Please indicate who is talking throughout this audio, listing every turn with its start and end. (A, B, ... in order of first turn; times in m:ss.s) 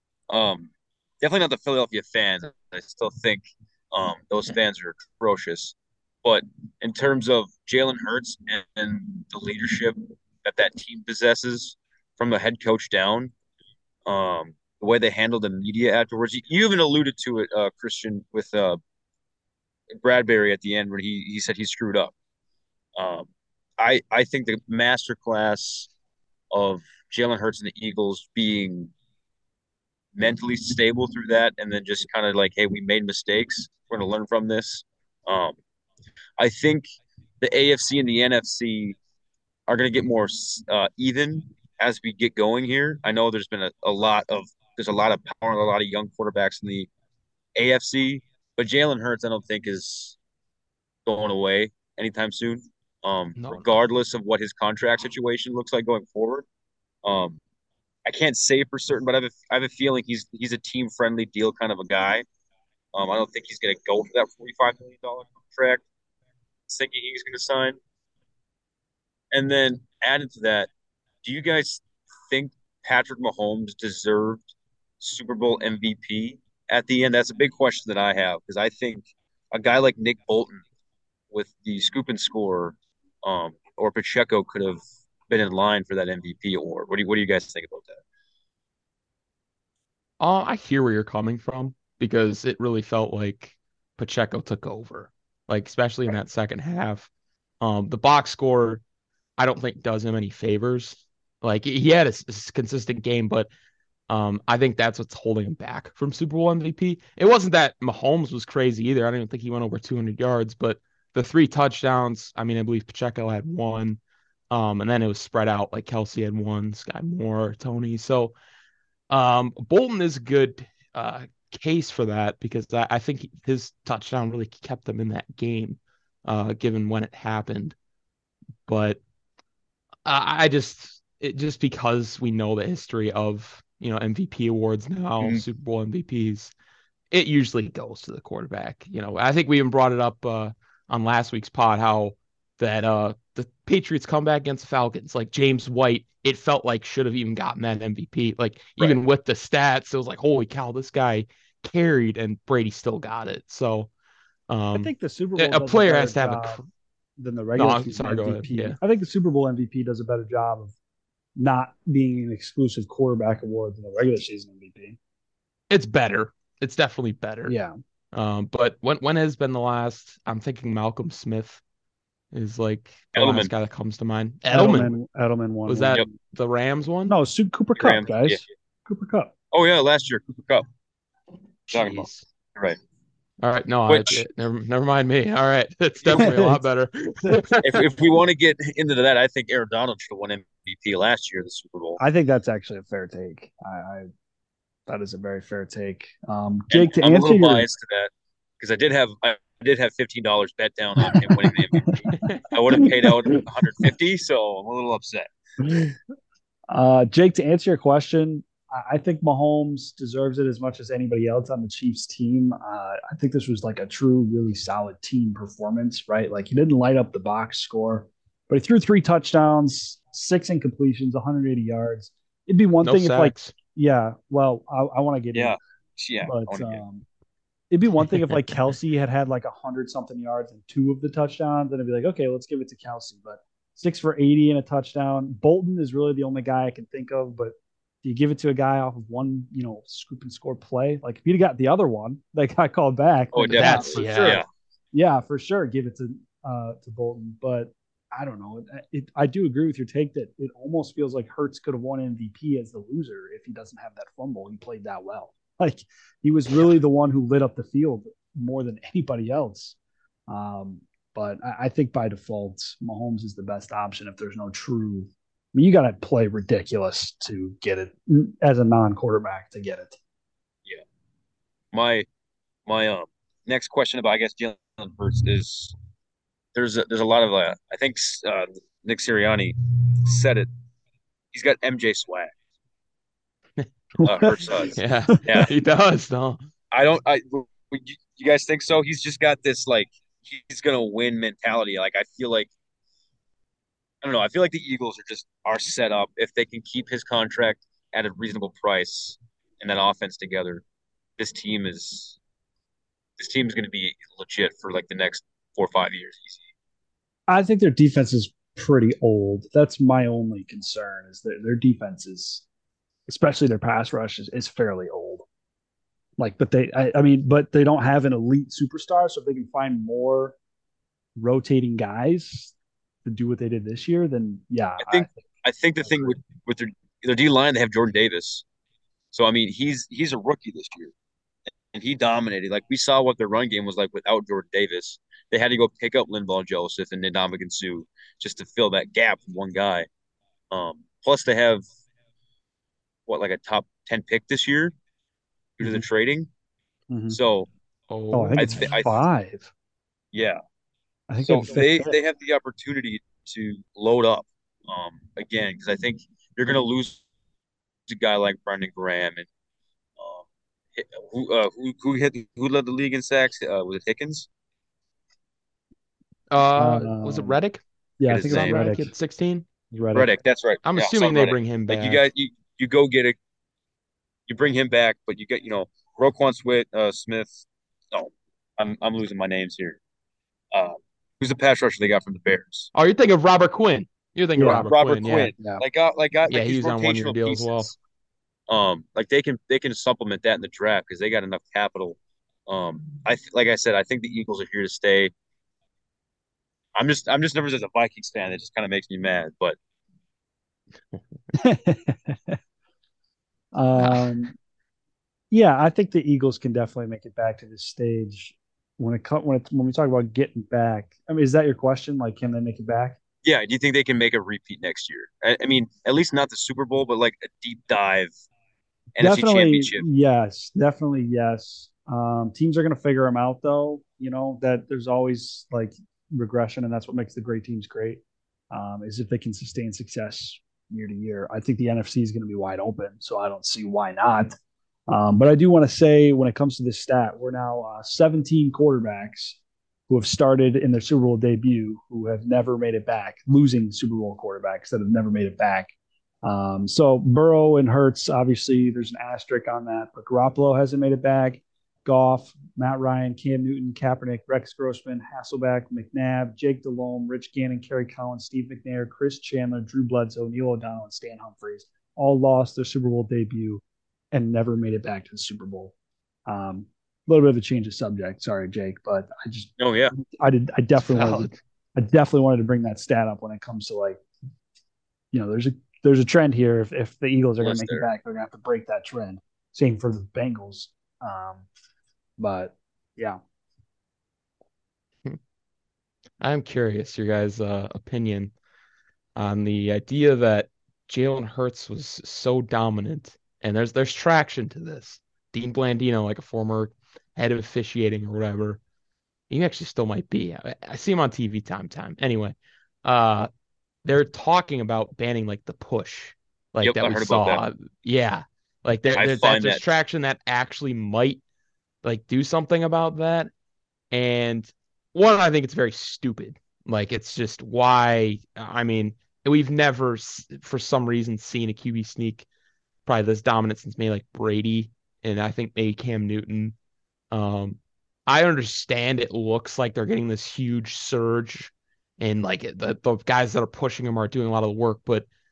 0:00.3-0:13.3 A
0:14.1-0:18.8 A
0:19.9-0:22.1 A
0:23.0-0:25.9 A
0:26.5-0:28.9 A
0:30.2-0:35.6 A
0:36.4-0:36.9 A
0:37.4-0:39.0 A
0:39.7-0:46.9 A
0:47.6-0:50.2 A
0:51.1-0:56.5 A
0:53.4-0:53.7 B
0:57.0-0:57.4 A
0:58.0-1:02.2 A
1:02.9-1:05.8 A
1:06.7-1:07.8 A
1:09.3-1:10.7 A
1:11.2-1:20.6 A
1:21.3-1:28.0 A
1:30.2-1:37.1 B
1:37.6-1:38.8 B
1:39.4-1:43.5 B
1:44.1-1:54.0 B
1:54.5-1:58.4 B
1:59.1-2:07.8 B
2:08.7-2:09.0 B
2:10.0-2:16.5 B
2:17.1-2:33.9 B
2:34.5-2:36.6 B
2:34.8-2:36.6 C
2:37.2-2:40.7 C
2:37.6-2:38.8 B
2:41.4-2:45.0 C
2:45.7-2:47.6 B
2:47.5-2:47.7 C
2:48.1-2:51.6 B
2:52.3-2:55.0 B
2:53.2-2:53.5 A
2:54.5-2:56.1 C
2:55.7-2:57.2 B
2:57.1-2:59.3 C
2:57.8-2:58.4 A
2:59.5-3:00.6 A
3:01.7-3:02.2 B
3:01.7-3:02.8 A
3:03.4-3:07.8 B
3:03.9-3:04.2 A
3:06.2-3:06.6 C
3:07.6-3:12.0 A
3:12.0-3:14.1 C
3:14.9-3:17.7 C
3:16.7-3:25.3 A
3:21.0-3:23.4 C
3:22.2-3:22.4 B
3:25.6-3:26.0 C
3:26.7-3:45.6 C
3:42.8-3:43.5 B
3:45.3-3:46.8 A
3:46.2-3:47.1 C
3:47.7-4:19.8 C
4:03.3-4:04.5 A
4:03.6-4:04.4 B
4:20.3-4:30.0 C
4:31.7-4:32.1 A
4:32.7-4:35.7 A
4:36.5-4:40.5 A
4:41.3-4:42.3 A
4:43.6-4:44.0 B
4:44.0-4:44.6 C
4:44.0-4:45.5 A
4:44.8-4:46.4 B
4:46.7-4:52.5 A
4:54.0-5:00.6 A
5:01.2-5:02.2 A
5:03.2-5:06.4 A
5:07.3-5:12.4 C
5:13.1-5:15.3 C
5:16.2-5:20.4 C
5:21.2-5:22.5 C
5:23.0-5:25.2 C
5:24.8-5:28.4 A
5:29.1-5:30.9 A
5:31.7-5:39.9 A
5:40.5-5:41.6 A
5:43.1-5:44.8 A
5:45.6-5:46.3 A
5:46.9-5:47.2 C
5:47.1-5:47.5 A
5:47.9-5:48.8 B
5:48.1-5:49.5 C
5:48.4-5:49.0 A
5:50.1-5:50.4 A
5:51.1-5:52.0 C
5:51.2-5:57.0 A
5:57.9-5:59.3 A
6:00.0-6:04.3 A
6:06.3-6:07.6 B
6:06.6-6:07.4 C
6:08.0-6:08.9 C
6:08.1-6:08.6 A
6:08.2-6:09.5 B
6:09.7-6:10.1 C
6:09.9-6:13.2 A
6:10.6-6:12.0 B
6:14.3-6:19.8 A
6:20.5-6:22.7 A
6:22.8-6:25.3 B
6:24.4-6:24.6 C
6:24.4-6:27.7 A
6:26.3-6:27.7 B
6:28.5-6:35.1 A
6:36.8-6:39.6 A
6:41.3-6:42.4 C
6:43.5-6:44.3 C
6:43.8-6:44.2 B
6:45.3-6:53.0 C
6:53.2-6:58.1 A
6:59.0-6:59.8 A
6:59.0-7:14.4 C
7:14.9-7:19.4 C
7:19.9-7:25.7 C
7:26.2-7:43.6 C
7:44.1-7:45.7 C
7:46.3-7:54.0 C
7:49.6-7:49.9 A
7:50.8-7:51.4 B
7:55.1-8:01.5 C
7:57.4-7:57.9 A
8:02.2-8:03.2 C
8:06.2-8:08.3 B
8:09.2-8:18.6 B
8:19.3-8:23.3 B
8:23.8-8:31.2 B
8:26.6-8:27.4 A
8:28.9-8:29.6 A
8:31.8-8:33.3 B
8:33.9-8:42.3 B
8:42.9-8:46.6 B
8:47.1-8:55.1 B